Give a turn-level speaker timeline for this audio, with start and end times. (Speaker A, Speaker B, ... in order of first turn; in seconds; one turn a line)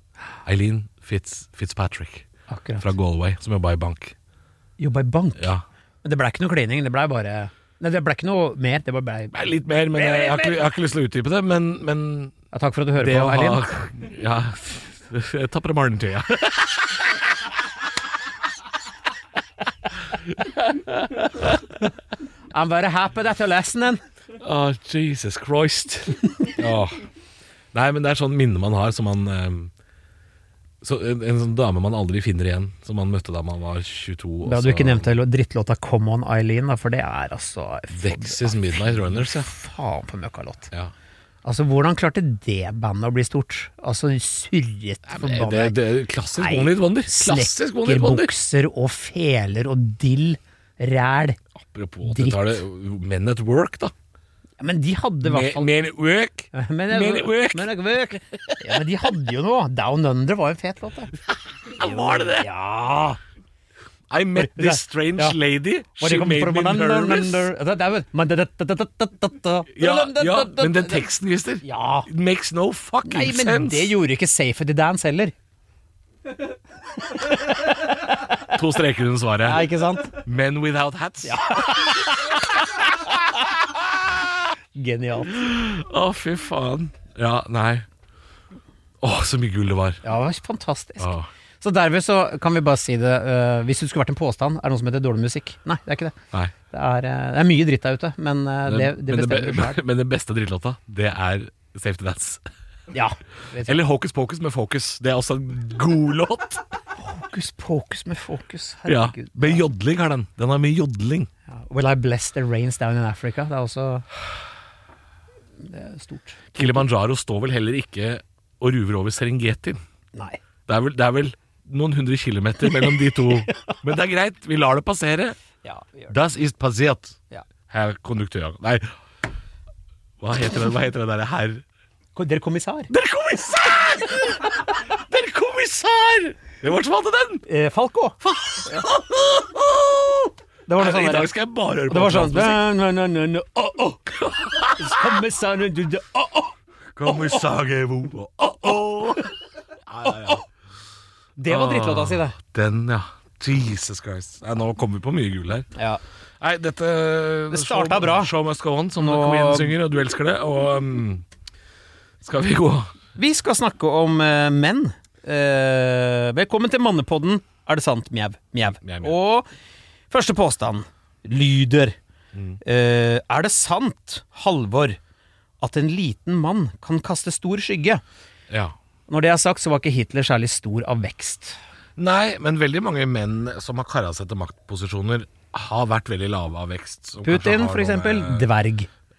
Speaker A: 0.5-2.2
Speaker B: 2.5-2.9
Speaker A: 2.8-4.1
Speaker B: 4.8-5.5
Speaker A: 5.4-5.6
Speaker B: 6.0-9.4
Speaker A: 9.3-12.4
Speaker B: 9.9-10.7
Speaker B: 12.5-13.6
Speaker A: 12.9-17.2
Speaker A: 20.3-21.6
Speaker B: 22.5-24.0
Speaker A: 24.4-27.1
Speaker A: 27.7-29.7
Speaker A: 30.8-35.1
Speaker B: 34.5-40.7
Speaker A: 37.9-39.5
Speaker B: 41.4-45.8
Speaker A: 45.1-48.3
Speaker B: 46.4-51.4
Speaker A: 51.6-53.9
Speaker B: 52.0-52.6
Speaker B: 54.6-55.7
Speaker A: 55.2-57.7
Speaker B: 56.5-61.1
Speaker A: 58.3-58.6
Speaker A: 61.6-62.5
Speaker B: 61.8-63.2
Speaker A: 64.1-67.5
Speaker B: 64.4-65.4
Speaker B: 66.0-71.0
Speaker A: 69.8-73.9
Speaker B: 71.6-72.1
Speaker B: 73.0-75.3
Speaker B: 77.0-78.6
Speaker A: 78.5-82.1
Speaker B: 79.4-80.2
Speaker B: 81.2-83.4
Speaker B: 84.7-85.4
Speaker A: 85.3-87.9
Speaker A: 89.0-90.0
Speaker B: 90.0-96.2
Speaker A: 91.0-91.3
Speaker B: 96.7-99.8
Speaker A: 98.7-102.4
Speaker B: 102.9-103.8
Speaker A: 103.7-106.7
Speaker B: 107.0-109.7
Speaker A: 108.9-111.3
Speaker B: 111.5-114.1
Speaker B: 115.6-116.8
Speaker A: 116.5-119.8
Speaker B: 120.2-120.4
Speaker A: 120.7-125.4
Speaker B: 122.9-123.8
Speaker B: 125.6-126.1
Speaker A: 126.1-128.9
Speaker A: 130.2-131.6
Speaker B: 132.2-132.9
Speaker A: 132.9-137.5
Speaker B: 137.5-138.9
Speaker A: 138.3-142.6
Speaker B: 140.7-141.3
Speaker B: 141.9-144.1
Speaker A: 144.2-145.1
Speaker B: 144.8-146.5
Speaker A: 146.9-149.3
Speaker B: 147.1-147.4
Speaker A: 149.9-150.5
Speaker B: 150.1-150.4
Speaker B: 151.4-152.4
Speaker A: 151.5-155.7
Speaker B: 155.8-156.0
Speaker A: 156.4-161.2
Speaker B: 157.5-158.3
Speaker B: 159.0-159.7
Speaker A: 162.2-162.9
Speaker B: 163.2-169.5
Speaker A: 168.8-169.2
Speaker B: 170.1-172.0
Speaker A: 172.3-172.6
Speaker B: 172.6-175.0
Speaker B: 175.6-178.0
Speaker A: 178.5-178.8
Speaker B: 179.1-181.6
Speaker A: 182.0-188.5
Speaker B: 187.2-188.9